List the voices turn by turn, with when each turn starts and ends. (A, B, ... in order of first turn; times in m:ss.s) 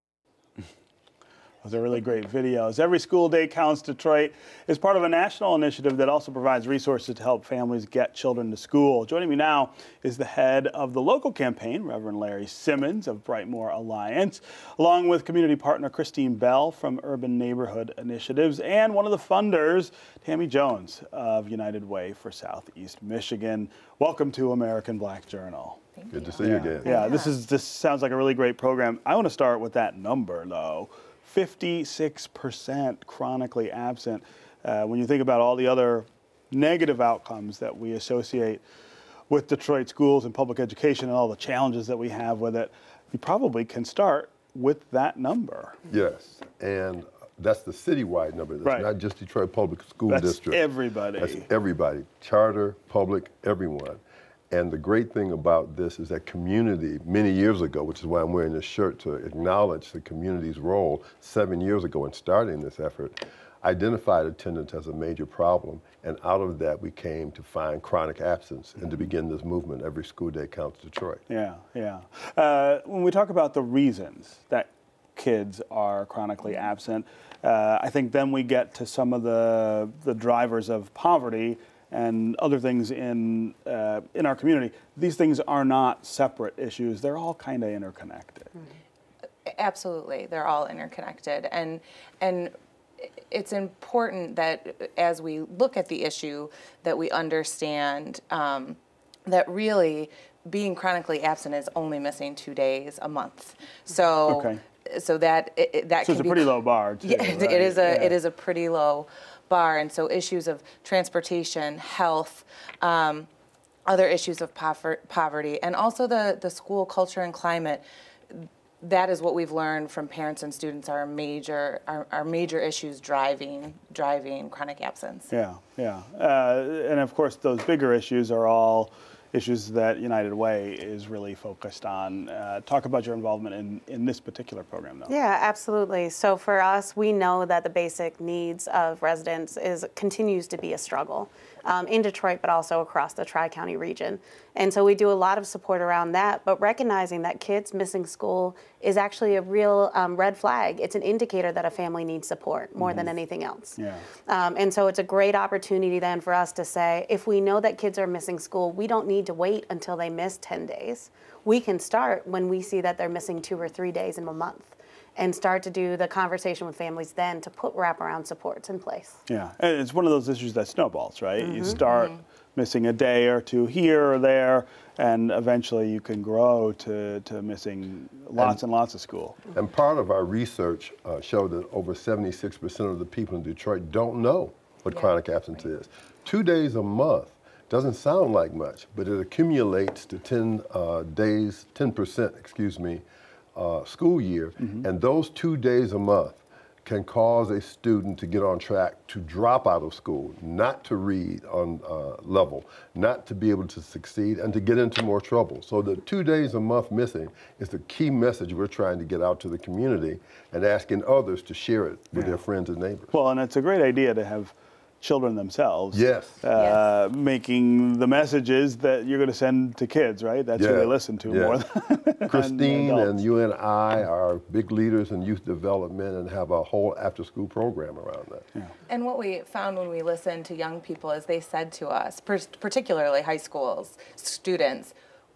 0:01.6-0:25.8 A
0:26.0-0:27.3 B
0:26.1-0:27.0 C
0:26.4-0:38.6 A
0:39.3-0:45.8 A
0:45.9-0:50.6 C
0:50.1-0:51.5 A
0:51.2-1:11.2 C
1:08.8-1:09.1 A
1:11.3-1:28.5 A
1:29.4-1:53.3 B
1:44.2-1:44.6 A
1:46.0-1:48.2 A
1:53.8-2:05.3 B
2:05.3-2:15.1 A
2:15.1-2:49.2 D
2:32.8-2:33.1 A
2:33.8-2:34.0 A
2:49.3-2:59.4 A
2:51.4-2:51.8 D
2:51.9-2:52.2 B
2:59.5-3:13.0 C
3:04.9-3:05.1 B
3:13.5-3:33.1 C
3:14.6-3:14.9 A
3:32.1-3:32.4 A
3:33.1-3:43.2 A
3:35.9-3:36.4 C
3:36.5-3:36.8 B
3:40.6-3:41.6 C
3:42.3-3:48.4 C
3:48.9-3:54.9 B